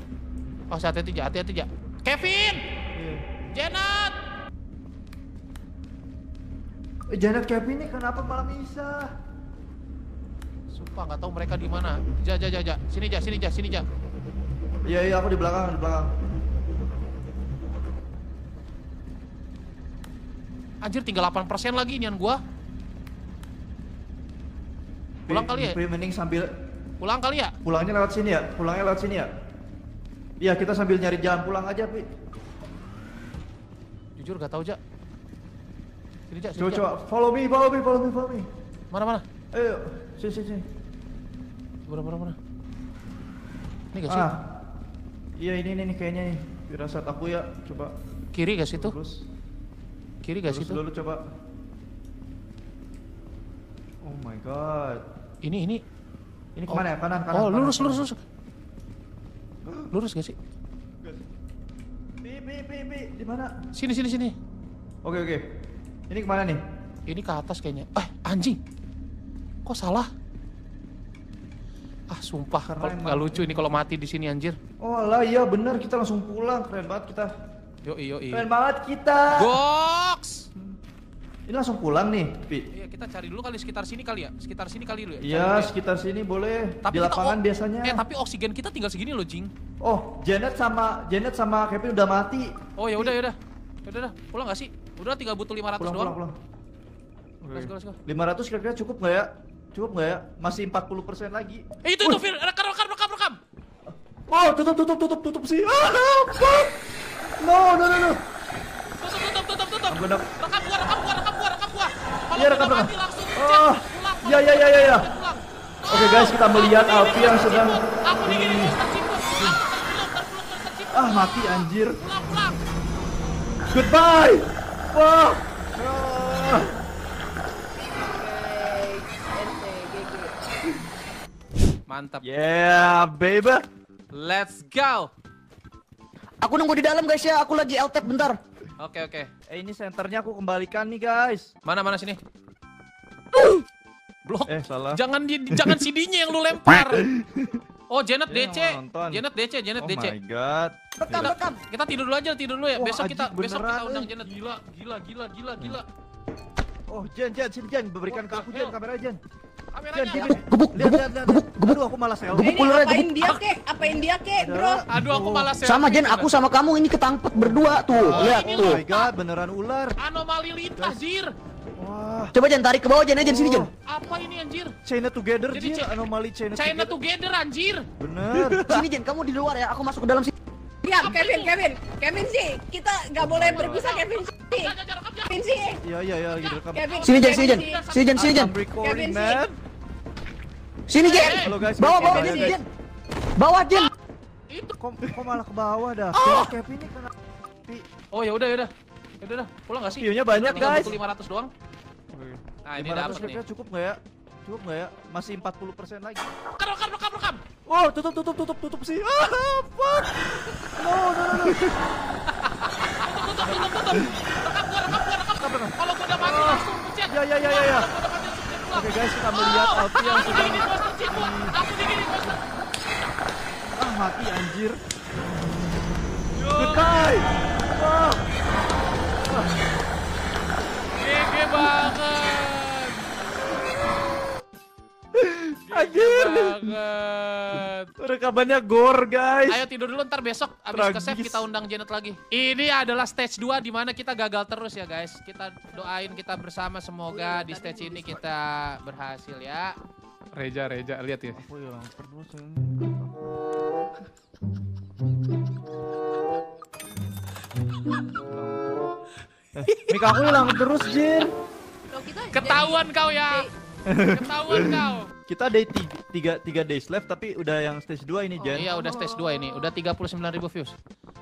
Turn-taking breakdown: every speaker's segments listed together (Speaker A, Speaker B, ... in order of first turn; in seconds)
Speaker A: 0.7-2.6, 3.5-4.2, 10.7-13.9, 20.8-22.4, 25.3-25.8, 27.0-27.5, 34.2-34.8, 36.3-36.9, 38.9-39.2, 41.9-42.4, 43.9-44.3, 48.3-49.0, 50.2-50.8, 55.4-55.8, 56.7-58.2, 59.9-60.4, 63.7-64.3, 67.1-68.6, 69.7-70.1, 72.1-74.6, 77.8-78.5, 79.3-80.5, 82.7-85.7, 86.8-89.5, 92.8-96.2, 97.5-98.0, 101.8-103.4, 109.0-122.6, 131.9-132.2, 134.1-135.1, 138.8-139.3, 141.7-142.2, 144.3-147.1, 147.9-150.1, 151.1-155.8, 158.1-158.8, 159.7-160.3, 164.9-166.3, 168.1-169.1, 170.0-171.3, 173.9-174.8, 175.5-175.9, 176.6-177.9, 181.0-181.5, 183.6-185.4, 186.8-188.2, 191.0-191.5, 194.5-194.8, 196.2-196.5, 198.1-201.5, 202.7-203.4, 206.6-207.4, 212.3-222.4, 226.4-227.1, 231.0-233.0, 235.7-237.9, 239.5-249.8, 250.3-251.4, 259.7-260.6, 262.3-263.5, 264.1-265.1, 268.5-270.7
Speaker B: 2.9-3.2, 7.1-9.1, 14.8-16.1, 25.3-26.5, 27.6-29.3, 30.4-32.1, 36.6-38.5, 39.5-40.7, 44.1-44.5, 45.4-47.9, 48.7-49.2, 50.5-51.2, 54.0-55.0, 56.6-58.0, 59.6-59.9, 62.2-63.6, 65.0-65.5, 66.1-66.6, 72.7-73.6, 74.8-77.3, 78.3-79.5, 81.5-82.7, 85.2-88.0, 89.8-93.2, 95.8-96.3, 97.4-102.2, 103.9-106.7, 107.4-108.2, 109.9-110.3, 112.3-115.1, 115.9-118.8, 120.9-122.0, 123.7-126.8, 132.2-133.6, 139.5-141.5, 144.5-145.0, 145.5-145.8, 147.0-147.6, 148.3-149.2, 149.8-151.3, 152.8-154.1, 156.9-159.2, 159.9-162.5, 164.4-165.5, 167.9-170.0, 171.8-172.3, 173.2-173.7, 174.8-176.9, 178.0-178.9, 183.2-184.0, 185.8-187.1, 188.2-189.6, 191.3-192.6, 194.8-197.9, 199.9-201.0, 202.1-206.3, 207.7-211.9, 213.4-214.3, 215.4-217.9, 218.7-221.6, 223.8-224.8, 226.5-228.3, 229.1-229.6, 235.2-236.7, 238.0-239.6, 240.7-241.4, 251.4-253.3, 258.3-258.9, 259.6-261.3, 263.9-268.7
Speaker C: 128.0-130.4, 162.4-164.8, 180.8-184.7, 185.3-185.8, 186.5-187.9, 188.8-189.4, 191.8-192.6, 245.7-246.2, 247.1-248.2, 261.9-263.5, 268.4-269.7
Speaker D: 136.4-138.4, 143.3-143.6, 151.0-151.6, 160.1-161.8, 162.3-163.1, 165.6-168.8, 172.3-173.7, 178.4-180.3, 187.0-188.5, 190.9-192.7, 193.4-193.9